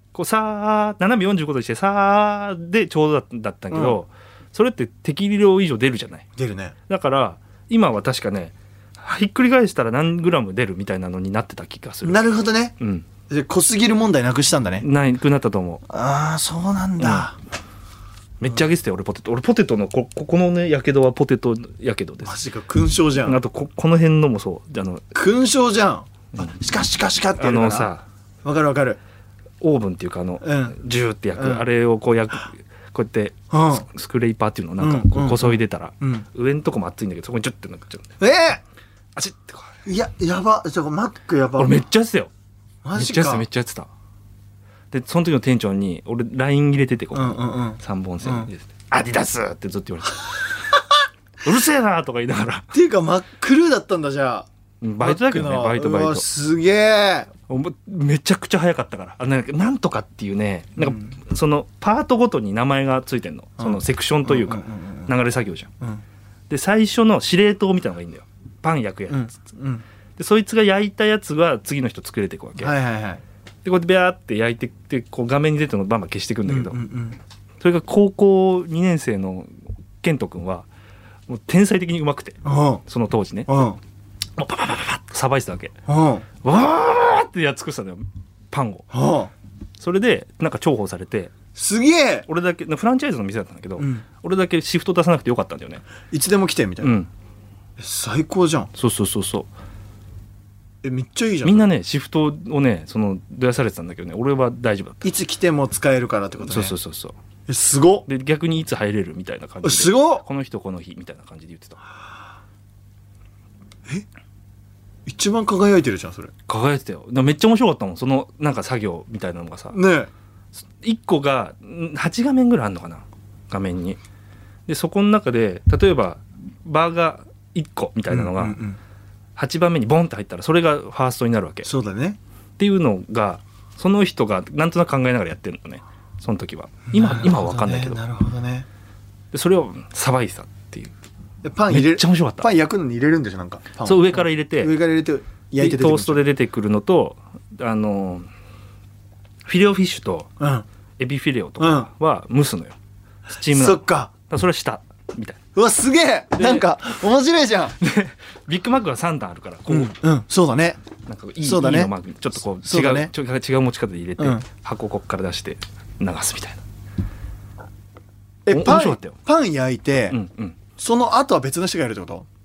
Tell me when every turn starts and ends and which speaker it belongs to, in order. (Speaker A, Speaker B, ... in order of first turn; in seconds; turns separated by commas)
Speaker A: 0.1-6.2, Speaker B: 3.7-4.0, Speaker B: 6.4-6.7, Speaker A: 6.9-12.2, Speaker B: 12.0-12.7, Speaker A: 12.8-13.1, Speaker B: 13.3-14.8, Speaker A: 14.8-15.8, Speaker B: 15.9-17.4, Speaker A: 17.0-17.3, Speaker A: 18.4-22.3, Speaker B: 18.4-18.7, Speaker B: 22.2-23.4, Speaker A: 23.2-25.0, Speaker B: 25.1-27.9, Speaker A: 27.4-28.0, Speaker B: 28.4-29.0, Speaker A: 29.6-38.1, Speaker B: 30.4-30.8, Speaker B: 31.3-31.7, Speaker B: 33.5-33.9, Speaker B: 34.8-36.2, Speaker B: 38.2-38.6, Speaker A: 39.1-39.8, Speaker B: 39.9-41.8, Speaker A: 41.6-42.3, Speaker B: 42.8-43.5, Speaker A: 42.9-43.9, Speaker A: 44.9-50.6, Speaker B: 47.1-48.5, Speaker A: 51.4-52.7, Speaker B: 52.7-54.5, Speaker A: 54.8-56.3, Speaker B: 55.0-57.3, Speaker A: 57.5-65.7, Speaker B: 60.8-61.1, Speaker B: 63.6-65.1, Speaker A: 66.5-69.5, Speaker B: 69.1-69.8, Speaker A: 70.2-72.7, Speaker B: 72.6-73.2, Speaker A: 73.6-76.8, Speaker B: 76.5-77.2, Speaker A: 77.6-80.7, Speaker A: 81.3-83.6, Speaker B: 82.4-82.8, Speaker B: 83.5-83.8, Speaker A: 84.3-85.7, Speaker B: 85.9-86.2, Speaker A: 86.4-88.9, Speaker B: 88.9-89.3, Speaker A: 89.8-91.3, Speaker B: 91.5-92.2, Speaker A: 92.3-95.8, Speaker B: 93.8-94.0, Speaker B: 96.1-97.0, Speaker A: 96.8-97.1, Speaker B: 97.8-98.7, Speaker A: 98.7-99.5, Speaker B: 100.8-101.7, Speaker A: 101.4-105.1, Speaker B: 105.0-106.8, Speaker A: 106.4-107.2, Speaker B: 107.5-108.1, Speaker A: 108.0-111.8, Speaker B: 109.6-110.2, Speaker B: 115.0-116.3, Speaker A: 116.5-119.8, Speaker B: 119.7-120.1, Speaker A: 120.8-124.0, Speaker A: 124.7-128.6, Speaker B: 128.1-128.8, Speaker A: 129.3-131.7, Speaker B: 131.6-132.2, Speaker A: 132.6-138.0, Speaker B: 136.9-138.7, Speaker A: 139.3-140.9, Speaker B: 141.4-146.2, Speaker A: 141.7-142.5, Speaker A: 143.8-144.7, Speaker A: 145.5-148.3, Speaker A: 149.4-150.3, Speaker B: 150.4-150.6, Speaker A: 151.0-152.8, Speaker B: 151.6-151.9, Speaker A: 153.3-155.4, Speaker B: 153.5-154.1, Speaker B: 155.5-157.8, Speaker A: 156.3-156.7, Speaker A: 157.8-160.0, Speaker B: 159.7-160.8, Speaker A: 161.1-166.6, Speaker B: 161.4-161.9, Speaker B: 162.6-163.1, Speaker B: 164.2-164.4, Speaker B: 168.4-170.2, Speaker A: 168.5-169.2, Speaker A: 170.1-170.6, Speaker B: 170.8-172.2